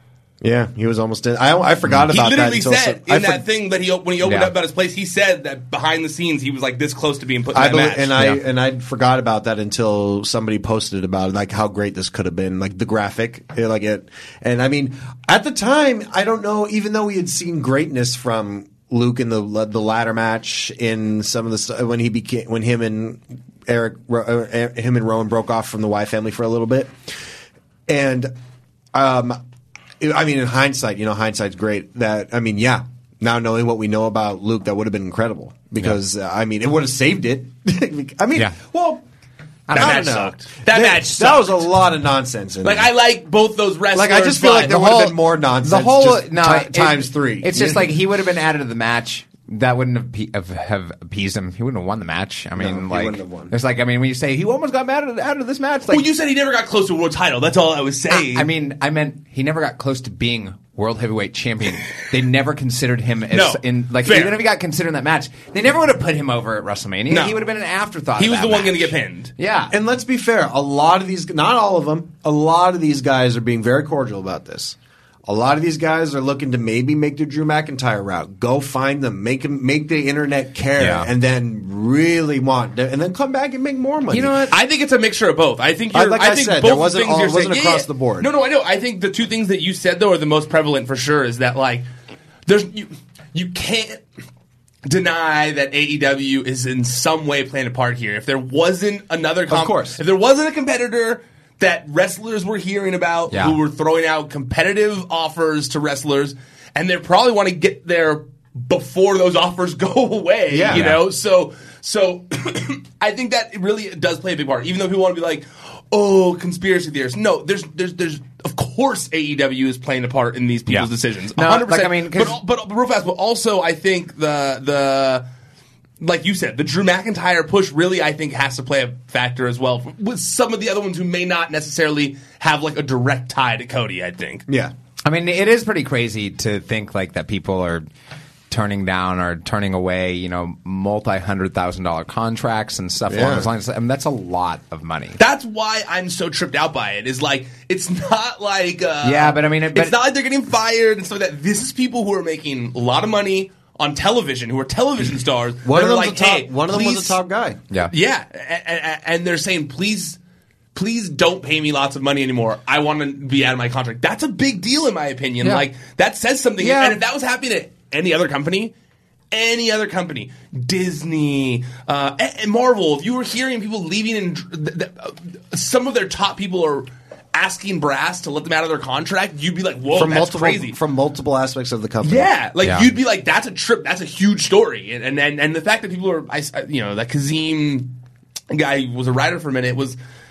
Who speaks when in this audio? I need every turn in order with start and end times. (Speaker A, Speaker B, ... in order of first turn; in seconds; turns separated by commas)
Speaker A: 0.4-3.4, Speaker B: 2.1-8.1, Speaker C: 4.2-4.5, Speaker A: 7.5-26.9, Speaker A: 27.9-28.3, Speaker A: 28.9-29.4, Speaker A: 30.0-39.0, Speaker C: 39.7-40.2, Speaker A: 39.7-42.9, Speaker B: 39.7-41.7, Speaker B: 42.6-44.8, Speaker A: 43.9-48.0, Speaker C: 44.7-56.1, Speaker A: 52.5-53.5, Speaker B: 55.9-58.5, Speaker C: 58.1-69.8, Speaker B: 63.3-64.4, Speaker B: 67.1-67.5, Speaker B: 68.2-69.3, Speaker A: 69.7-84.5, Speaker C: 80.8-81.1, Speaker C: 84.1-84.5, Speaker B: 84.5-91.9, Speaker A: 85.9-88.3, Speaker B: 92.5-94.0, Speaker B: 94.8-125.2, Speaker A: 99.5-100.0, Speaker C: 103.3-103.6, Speaker A: 110.5-110.8, Speaker C: 110.7-111.0, Speaker C: 120.7-122.4, Speaker B: 126.0-134.4, Speaker A: 134.5-134.7, Speaker C: 135.0-137.9, Speaker C: 138.5-145.2, Speaker A: 143.1-143.5, Speaker B: 145.2-157.2, Speaker C: 149.0-149.9, Speaker A: 155.6-157.6, Speaker B: 157.9-160.2, Speaker B: 160.7-168.7, Speaker C: 166.6-167.0, Speaker B: 169.3-180.8, Speaker A: 179.9-182.3, Speaker B: 182.0-187.9, Speaker C: 182.6-182.9, Speaker B: 188.5-190.0